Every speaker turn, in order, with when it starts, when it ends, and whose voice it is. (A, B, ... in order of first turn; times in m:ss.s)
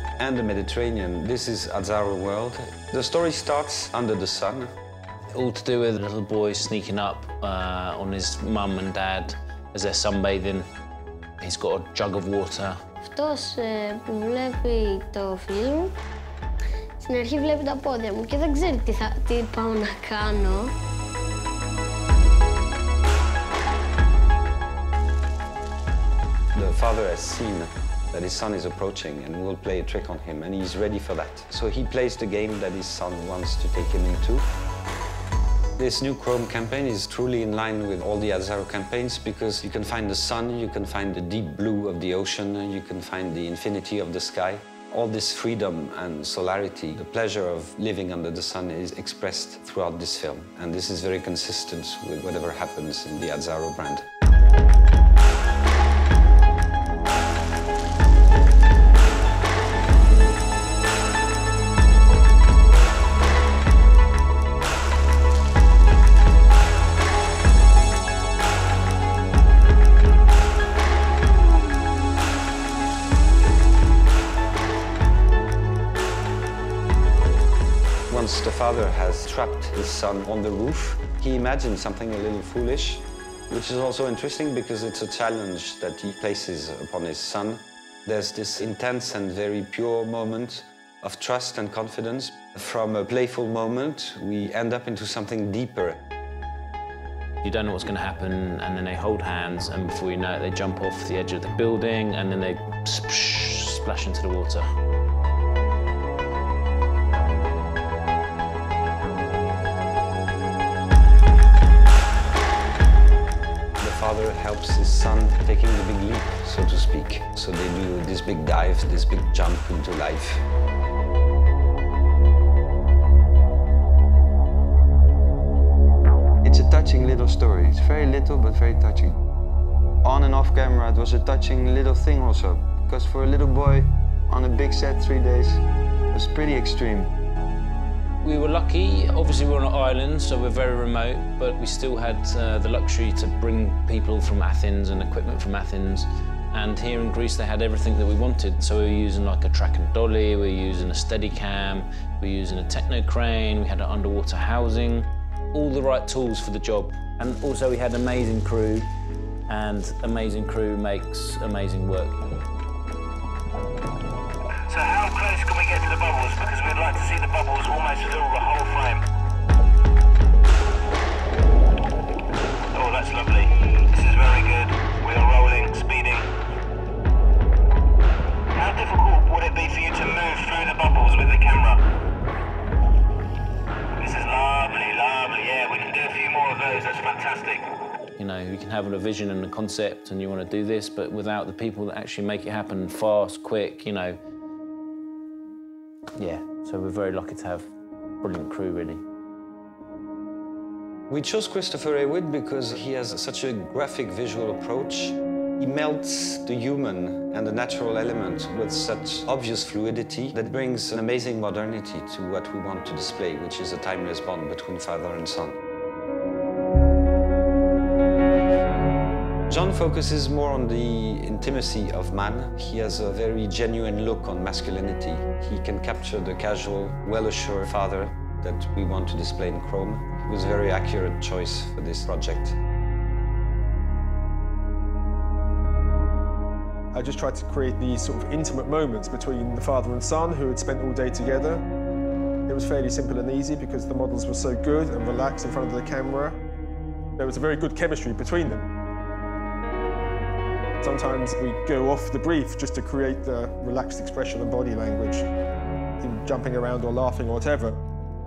0:00.2-0:04.7 A
0:05.3-0:10.7 B
0:11.4-0:12.8 B
0:13.0-0:16.0 C
0:17.0-0:20.7 C
0:26.5-0:34.5 A
0:35.8-0:54.0 A
1:18.1-1:36.0 A
1:37.4-1:44.6 B
1:53.8-2:00.4 A
2:06.4-2:09.2 D
2:10.0-2:17.1 D
2:18.2-2:38.9 B
2:39.5-2:42.2 B
2:44.7-2:49.1 E
2:52.7-2:56.3 E
2:58.5-3:01.9 E
3:04.0-3:07.7 E
3:08.2-3:14.2 B
3:16.2-3:17.7 B
3:18.2-3:19.0 B
3:21.1-3:35.6 A
3:39.5-3:52.6 A
3:56.9-4:01.6 F
4:02.5-4:06.4 F
4:07.2-4:08.7 F
4:10.8-4:15.3 F
4:16.0-4:17.8 F